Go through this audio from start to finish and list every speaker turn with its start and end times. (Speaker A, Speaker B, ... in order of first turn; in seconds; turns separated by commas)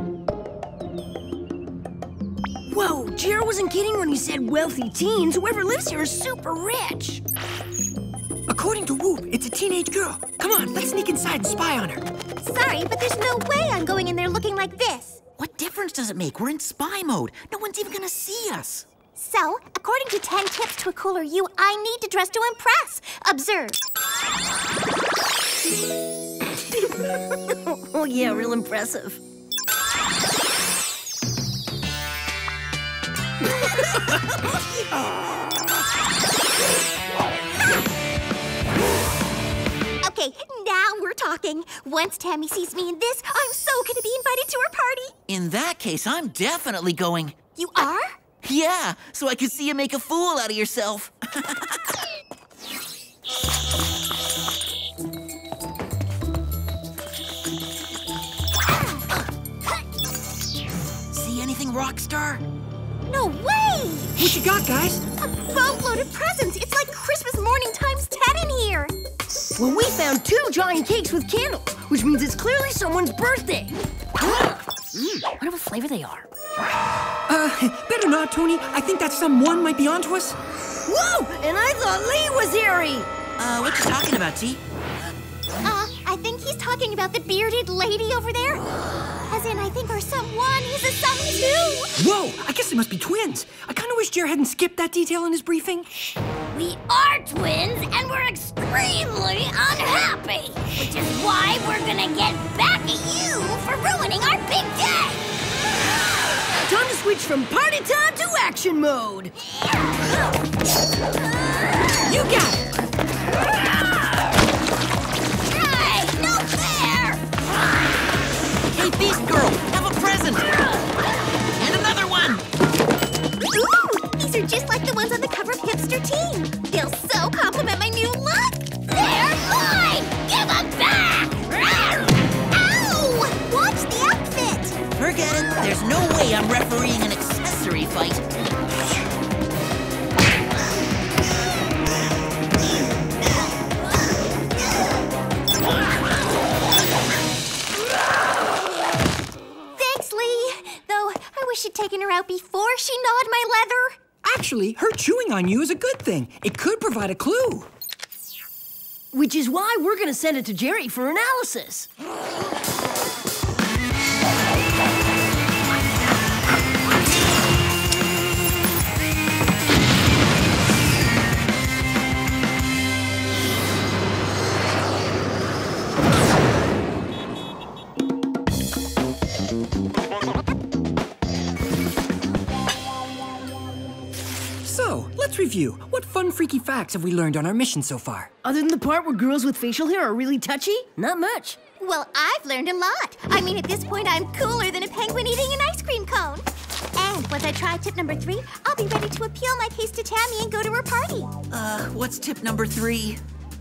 Speaker A: 2.7-7.2, Speaker B: 8.5-12.1, Speaker C: 12.4-15.2, Speaker D: 15.4-18.9, Speaker C: 19.1-23.8, Speaker A: 26.7-29.2, Speaker C: 40.0-45.1, Speaker D: 45.3-47.3, Speaker C: 47.5-48.2, Speaker D: 48.4-51.8, Speaker D: 61.1-62.4, Speaker C: 63.1-64.3, Speaker B: 64.2-65.0, Speaker C: 65.2-68.9, Speaker A: 69.6-74.5, Speaker D: 75.3-76.2, Speaker A: 75.5-76.1, Speaker B: 77.3-80.4, Speaker A: 80.8-83.1, Speaker D: 83.4-84.6, Speaker C: 85.6-88.7, Speaker C: 89.3-91.9, Speaker B: 92.0-95.9, Speaker A: 96.5-98.5, Speaker E: 98.3-105.2, Speaker A: 100.0-100.4, Speaker A: 106.6-109.3, Speaker B: 112.1-112.5, Speaker E: 115.5-117.2, Speaker D: 118.7-120.6, Speaker D: 121.6-122.4, Speaker C: 123.4-131.7, Speaker E: 129.4-129.8, Speaker C: 132.5-134.8, Speaker D: 135.0-138.2, Speaker C: 149.8-154.0, Speaker B: 154.2-157.7, Speaker A: 159.1-161.9, Speaker B: 184.6-188.3, Speaker A: 188.4-191.6, Speaker C: 191.8-201.3, Speaker D: 201.5-203.2